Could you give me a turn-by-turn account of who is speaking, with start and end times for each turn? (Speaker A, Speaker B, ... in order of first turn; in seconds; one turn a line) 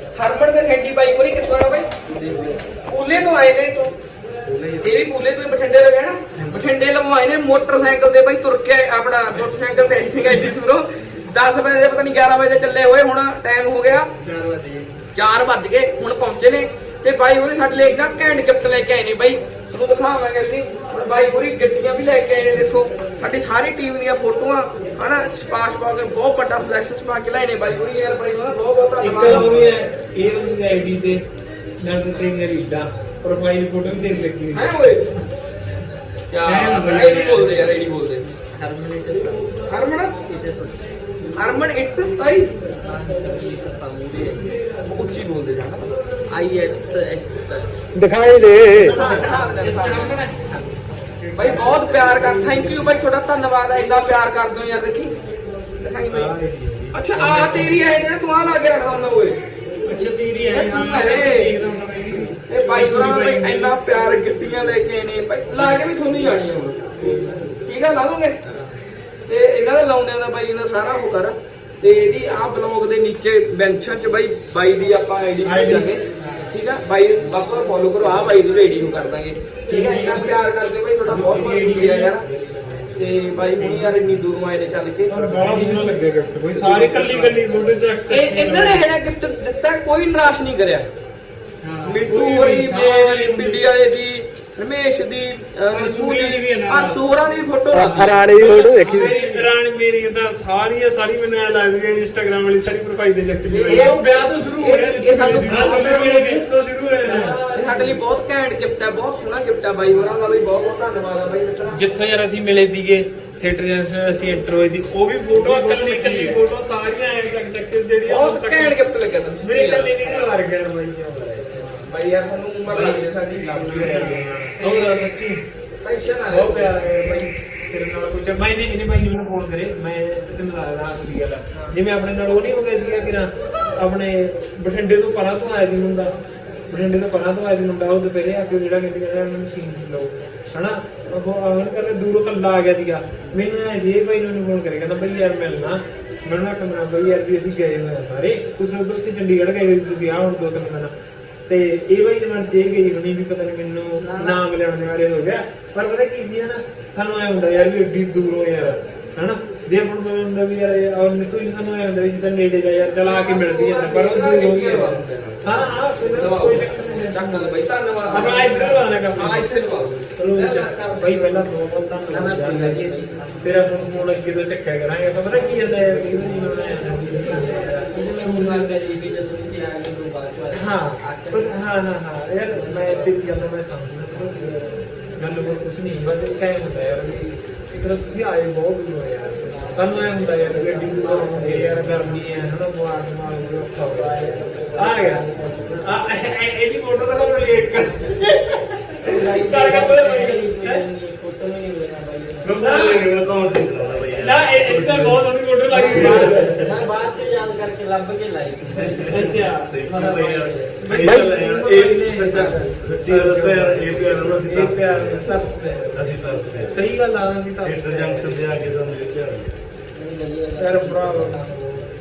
Speaker A: 0.1-1.9
Speaker B: 2.1-2.6
Speaker A: 2.9-3.9
Speaker A: 4.8-14.1
Speaker B: 14.2-14.9
Speaker A: 15.1-29.6
Speaker C: 29.0-31.2
Speaker B: 29.3-29.7
Speaker C: 31.8-34.7
Speaker A: 34.5-35.0
Speaker A: 36.3-38.2
Speaker C: 36.5-37.6
Speaker B: 38.5-39.5
Speaker A: 39.7-40.1
Speaker B: 40.2-40.9
Speaker A: 41.3-42.5
Speaker B: 42.8-44.6
Speaker A: 44.8-45.9
Speaker B: 46.3-47.7
Speaker D: 48.0-49.0
Speaker C: 48.7-50.6
Speaker A: 48.7-50.2
Speaker B: 48.9-49.5
Speaker C: 51.2-52.6
Speaker A: 51.3-55.2
Speaker A: 55.8-56.3
Speaker C: 56.1-57.8
Speaker A: 56.9-59.4
Speaker C: 59.8-63.7
Speaker A: 60.5-61.5
Speaker A: 62.5-66.9
Speaker A: 67.7-68.4
Speaker A: 69.3-82.2
Speaker C: 75.4-75.9
Speaker C: 79.7-80.3
Speaker C: 81.1-82.3
Speaker A: 82.9-85.6
Speaker C: 85.1-88.9
Speaker D: 85.5-85.8
Speaker A: 88.1-90.9
Speaker C: 91.6-93.6
Speaker D: 91.7-93.5
Speaker A: 91.8-98.8
Speaker D: 95.8-96.9
Speaker C: 95.8-97.0
Speaker D: 97.7-99.4
Speaker C: 98.0-107.4
Speaker A: 103.5-106.4
Speaker D: 103.9-106.3
Speaker B: 107.0-108.0
Speaker A: 107.5-111.8
Speaker C: 111.7-118.8
Speaker D: 115.5-115.9
Speaker A: 118.0-120.3
Speaker C: 119.4-121.9
Speaker A: 121.9-124.2
Speaker C: 122.7-125.4
Speaker A: 125.8-126.7
Speaker C: 126.3-136.1
Speaker C: 136.7-150.9
Speaker C: 151.5-167.6
Speaker A: 154.0-154.4
Speaker A: 163.0-171.0
Speaker C: 168.1-178.8
Speaker B: 172.1-173.9
Speaker B: 175.6-176.5
Speaker B: 177.1-181.6
Speaker C: 180.5-200.8
Speaker B: 182.5-183.2
Speaker B: 189.5-192.4
Speaker B: 193.9-195.9
Speaker B: 199.0-202.6
Speaker E: 202.4-205.2
Speaker C: 202.6-203.1
Speaker C: 204.1-206.7
Speaker B: 205.7-210.9
Speaker E: 206.1-206.6
Speaker E: 208.9-216.8
Speaker C: 209.0-209.8
Speaker C: 210.8-216.1
Speaker B: 212.3-212.6
Speaker C: 216.6-218.4
Speaker E: 217.6-219.5
Speaker B: 219.9-221.9
Speaker C: 220.6-221.6